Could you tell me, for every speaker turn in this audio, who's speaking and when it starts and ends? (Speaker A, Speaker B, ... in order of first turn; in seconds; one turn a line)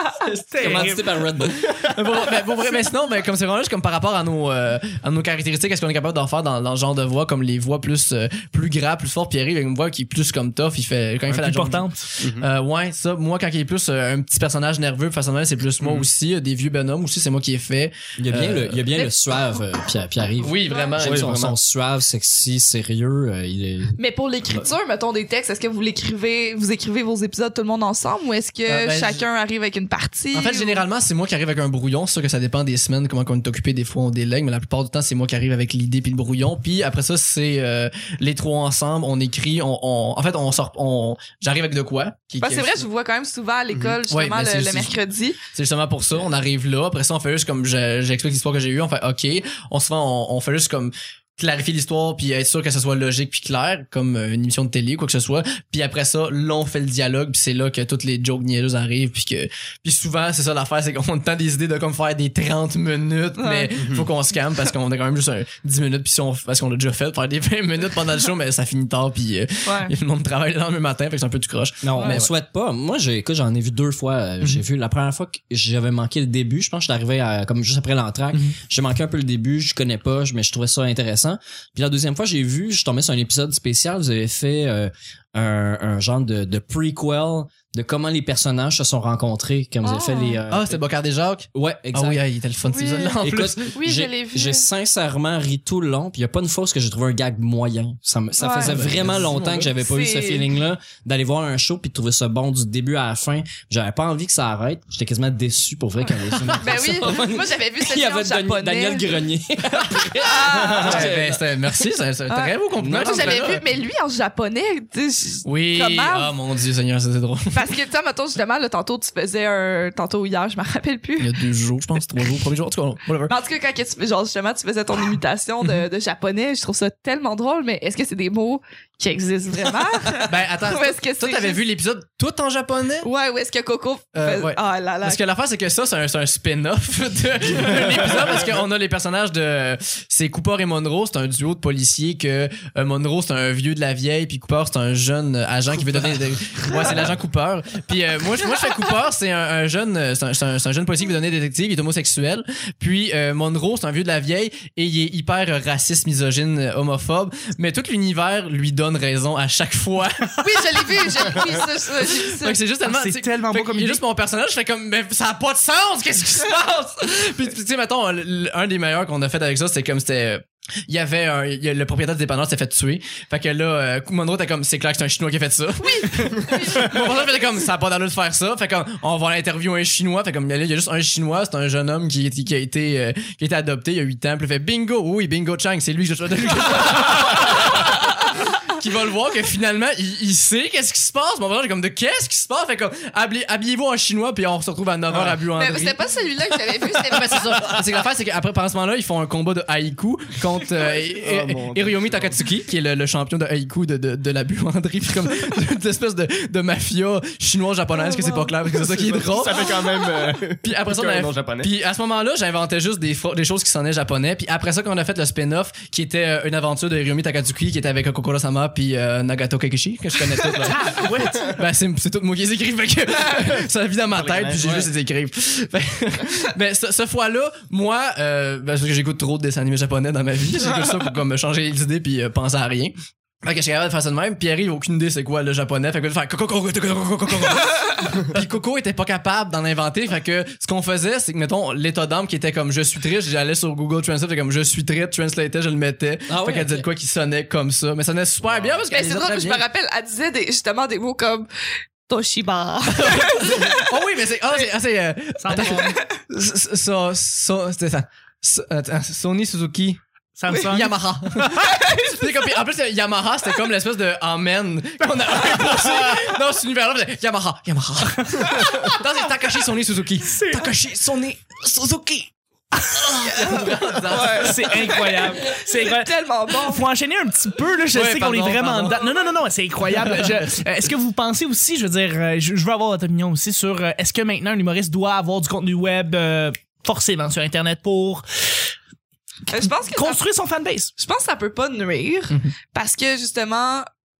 Speaker A: 0.3-1.1
Speaker B: 0.6-1.7
Speaker C: 1.6-1.9
Speaker D: 1.8-18.9
Speaker A: 11.3-12.0
Speaker C: 12.2-12.5
Speaker C: 15.8-16.1
Speaker B: 18.2-24.0
Speaker D: 20.4-21.5
Speaker C: 21.0-21.5
Speaker E: 24.0-30.8
Speaker D: 28.7-29.2
Speaker D: 30.3-42.9
Speaker E: 42.4-45.4
Speaker C: 43.7-44.0
Speaker D: 44.1-45.0
Speaker D: 45.5-72.3
Speaker E: 63.4-63.8
Speaker C: 63.8-64.1
Speaker E: 69.6-69.9
Speaker B: 71.8-90.8
Speaker E: 89.8-90.4
Speaker D: 90.5-93.8
Speaker B: 91.5-92.2
Speaker E: 92.6-94.7
Speaker B: 93.2-111.4
Speaker E: 98.4-98.8
Speaker D: 98.6-99.7
Speaker E: 99.8-100.5
Speaker D: 106.3-106.6
Speaker E: 106.6-109.1
Speaker E: 110.2-111.1
Speaker D: 110.8-113.6
Speaker E: 112.3-116.3
Speaker B: 112.8-113.5
Speaker D: 115.4-117.6
Speaker E: 117.5-121.3
Speaker D: 121.2-123.3
Speaker E: 123.2-131.6
Speaker D: 130.2-133.1
Speaker E: 133.0-135.2
Speaker D: 134.1-196.0
Speaker E: 160.4-162.6
Speaker A: 162.8-164.0
Speaker E: 175.8-177.2
Speaker E: 195.5-197.8
Speaker D: 196.8-209.8
Speaker C: 200.9-202.3
Speaker E: 208.0-208.5
Speaker C: 208.8-211.7
Speaker D: 210.6-249.6
Speaker A: 220.6-221.6
Speaker C: 224.1-224.9
Speaker B: 246.3-246.8
Speaker C: 248.4-248.8
Speaker E: 248.9-251.5
Speaker E: 252.1-253.9
Speaker D: 252.9-260.0
Speaker A: 255.4-256.0
Speaker E: 255.6-256.0
Speaker A: 260.4-260.9
Speaker D: 260.6-275.0
Speaker E: 261.6-262.2
Speaker A: 270.4-270.7
Speaker E: 273.4-276.8
Speaker A: 274.3-288.2
Speaker D: 277.9-279.0
Speaker D: 279.9-280.4
Speaker E: 289.5-290.2
Speaker A: 289.6-290.9
Speaker E: 291.0-293.9